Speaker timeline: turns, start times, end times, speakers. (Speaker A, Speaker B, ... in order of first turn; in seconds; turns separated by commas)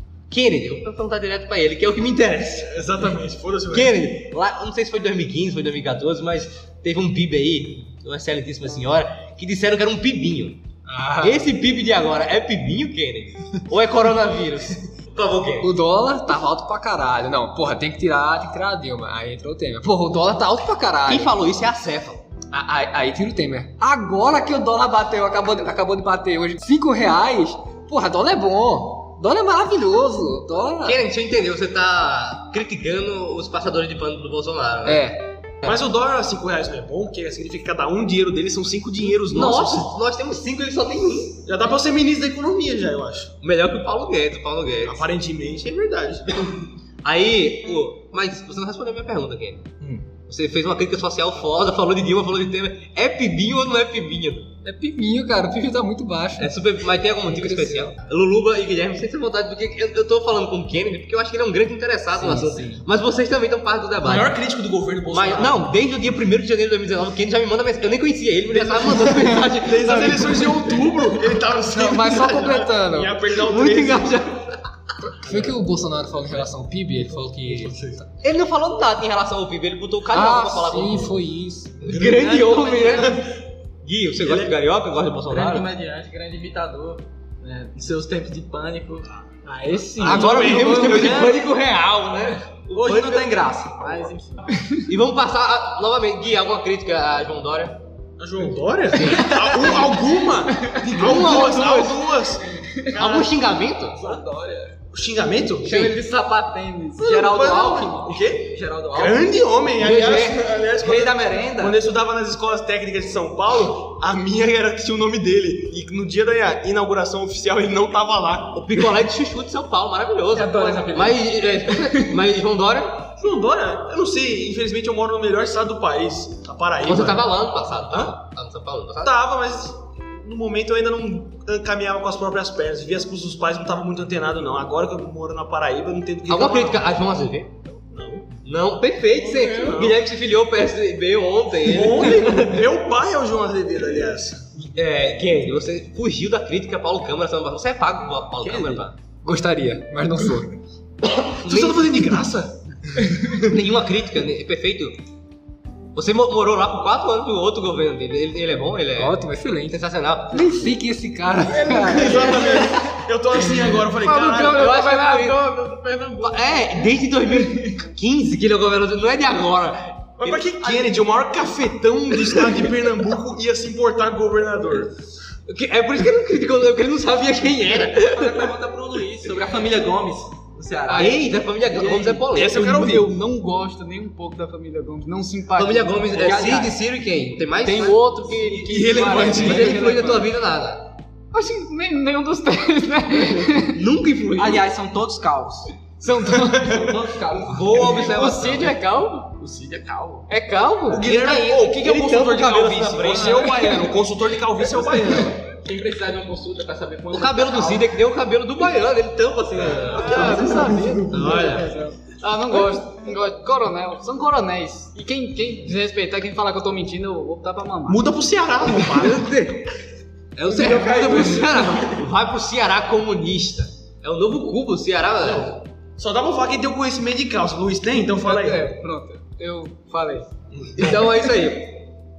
Speaker A: 0.3-2.8, Speaker B: 2.6-3.9, Speaker A: 3.7-10.6, Speaker C: 10.9-11.4, Speaker A: 11.2-15.7, Speaker C: 15.6-21.3, Speaker A: 21.1-22.2, Speaker C: 22.5-31.0, Speaker A: 30.9-35.8, Speaker C: 34.9-35.3, Speaker B: 35.6-39.9, Speaker A: 39.2-41.4, Speaker B: 41.5-43.3, Speaker A: 43.4-45.0, Speaker B: 44.8-46.5, Speaker A: 47.0-49.7, Speaker A: 50.2-54.5, Speaker C: 54.6-56.5, Speaker A: 56.4-64.3, Speaker C: 57.3-57.9, Speaker C: 62.2-62.8, Speaker B: 64.0-65.6, Speaker A: 65.1-70.5, Speaker B: 68.5-74.2, Speaker C: 69.9-70.6, Speaker C: 71.6-73.2, Speaker A: 73.4-74.4, Speaker C: 75.0-78.0, Speaker B: 75.3-75.5, Speaker B: 77.5-78.0, Speaker A: 78.2-81.2, Speaker C: 80.1-81.9, Speaker A: 81.8-83.3, Speaker B: 81.9-83.2, Speaker D: 82.1-83.1, Speaker A: 83.8-85.7, Speaker B: 84.2-84.5, Speaker D: 85.3-89.1, Speaker E: 89.5-91.2, Speaker B: 90.0-91.4, Speaker A: 90.0-93.4, Speaker D: 90.2-91.1, Speaker D: 92.7-94.5, Speaker A: 94.9-97.8, Speaker B: 98.2-103.4, Speaker A: 98.9-99.7, Speaker D: 100.8-101.4, Speaker A: 100.9-102.1, Speaker A: 103.0-104.0, Speaker D: 103.9-104.8, Speaker B: 104.9-106.0, Speaker E: 105.6-107.1, Speaker D: 107.0-109.5, Speaker B: 107.0-118.9, Speaker A: 109.8-110.5, Speaker D: 110.8-111.8, Speaker A: 118.5-123.1, Speaker E: 120.3-122.2, Speaker B: 123.2-127.3, Speaker A: 126.8-129.1, Speaker B: 127.8-128.1, Speaker B: 129.0-136.9, Speaker A: 136.3-137.7, Speaker B: 137.9-138.4, Speaker A: 138.4-142.6, Speaker B: 139.5-140.0, Speaker B: 141.6-144.7, Speaker A: 144.8-149.0, Speaker D: 148.4-148.9, Speaker C: 149.2-150.6, Speaker B: 151.4-153.5, Speaker A: 151.4-151.9, Speaker A: 153.4-155.0, Speaker A: 155.9-159.2, Speaker C: 159.0-159.8, Speaker A: 159.7-160.6, Speaker C: 160.3-162.5, Speaker B: 161.6-164.7, Speaker E: 161.9-162.8, Speaker E: 163.9-167.5, Speaker A: 164.4-165.4, Speaker A: 166.2-170.7, Speaker B: 170.2-175.0, Speaker A: 175.5-178.5, Speaker D: 177.8-182.3, Speaker E: 180.9-181.2, Speaker A: 180.9-182.7, Speaker B: 182.3-183.2, Speaker E: 182.4-186.5, Speaker A: 185.5-188.0, Speaker D: 186.1-186.7, Speaker E: 187.6-190.3, Speaker D: 188.2-190.0, Speaker B: 188.7-189.8, Speaker A: 189.1-190.9, Speaker E: 191.3-193.8, Speaker A: 193.7-194.7, Speaker D: 194.4-198.0, Speaker E: 196.0-196.9, Speaker A: 197.4-198.8, Speaker E: 197.7-199.3, Speaker D: 199.4-200.3, Speaker E: 200.3-201.1, Speaker B: 200.9-205.4, Speaker A: 201.0-203.6, Speaker E: 203.2-203.9, Speaker D: 204.8-207.9, Speaker A: 207.1-211.7, Speaker E: 209.9-218.1, Speaker B: 210.3-211.7, Speaker B: 217.9-219.3, Speaker A: 218.8-219.7, Speaker A: 220.4-225.6, Speaker D: 220.6-221.4, Speaker E: 220.6-221.7, Speaker B: 220.7-221.4, Speaker B: 225.2-228.7, Speaker E: 228.2-230.3, Speaker B: 230.5-231.0, Speaker A: 230.8-231.9